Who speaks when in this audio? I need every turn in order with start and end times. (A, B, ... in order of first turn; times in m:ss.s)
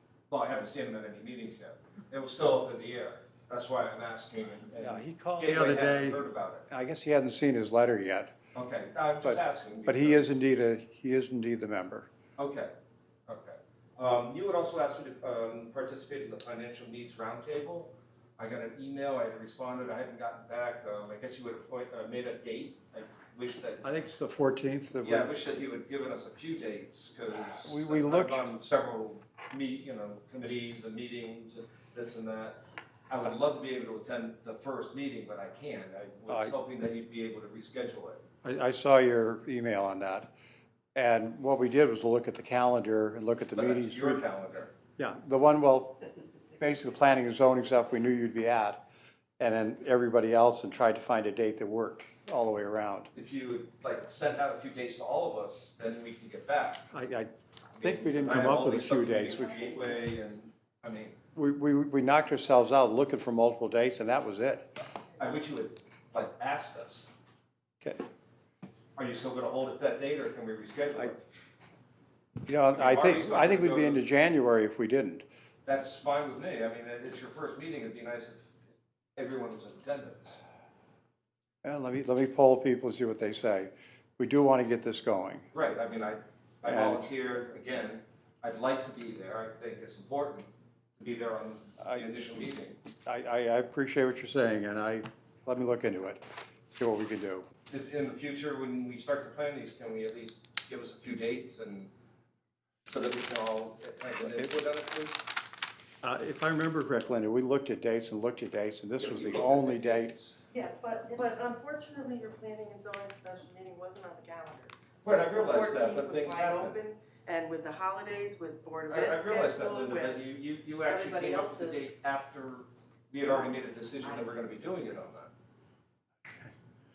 0:00.3-0:06.6 A
0:04.8-0:08.4 B
0:08.5-0:10.3 A
0:09.2-0:12.1 B
0:12.4-0:12.7 A
0:13.3-0:23.9 A
0:23.8-0:25.3 B
0:25.0-0:38.2 A
0:27.6-0:28.5 B
0:36.3-0:36.6 B
0:38.4-0:40.3 B
0:40.9-0:44.2 B
0:43.5-0:44.7 A
0:45.0-0:46.0 B
0:46.6-0:48.8 B
0:49.4-0:53.1 B
0:53.1-0:56.9 A
0:56.9-0:59.6 B
0:57.8-1:01.2 A
1:01.3-1:04.7 B
1:05.2-1:07.1 A
1:09.0-1:11.2 A
1:12.4-1:15.2 B
1:12.7-1:14.0 A
1:15.6-1:18.6 A
1:19.2-1:20.4 A
1:21.6-1:25.4 B
1:25.5-1:32.8 A
1:26.6-1:27.0 B
1:31.8-1:32.4 B
1:33.0-1:37.5 B
1:37.7-1:41.9 A
1:42.8-1:45.2 A
1:44.2-1:44.6 B
1:46.0-1:50.1 B
1:49.0-1:50.4 A
1:50.5-2:00.3 C
1:55.0-1:56.8 A
1:58.9-2:05.3 A
2:00.9-2:01.9 C